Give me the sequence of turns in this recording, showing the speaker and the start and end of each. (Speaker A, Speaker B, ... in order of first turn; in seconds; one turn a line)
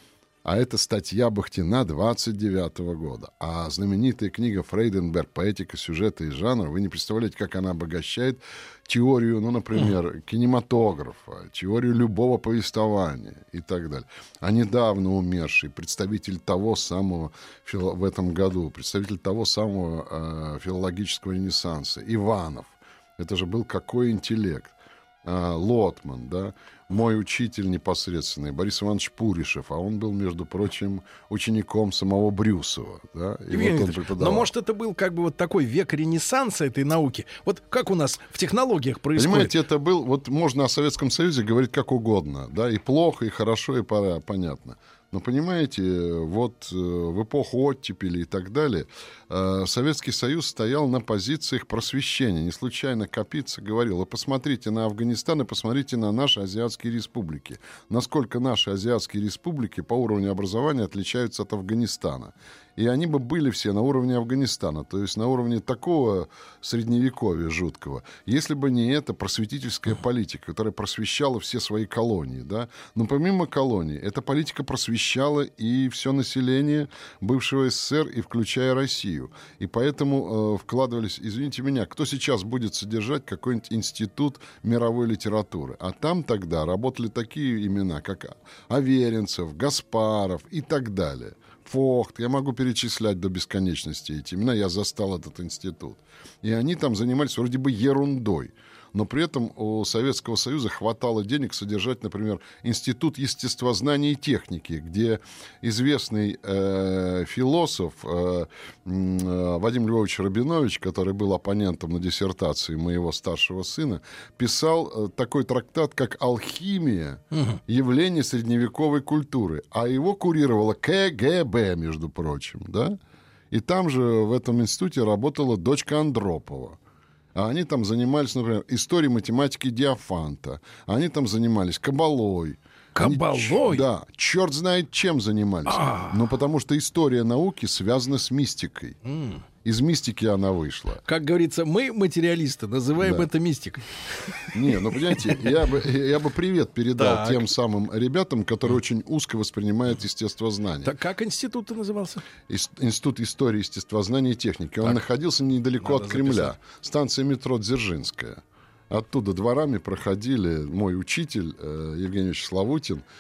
Speaker A: 0.4-34.5
Speaker B: 33.5-39.5
Speaker A: 39.2-123.0
Speaker B: 117.3-117.6
Speaker A: 123.5-126.8
Speaker A: 127.3-139.0
Speaker B: 132.9-133.9
Speaker B: 135.7-136.2
Speaker B: 139.1-139.4
Speaker A: 139.6-141.0
Speaker B: 141.1-144.5
Speaker A: 143.0-143.3
Speaker A: 144.5-150.9
Speaker B: 147.0-147.5
Speaker B: 150.8-152.2
Speaker A: 152.5-163.1
Speaker B: 155.8-156.6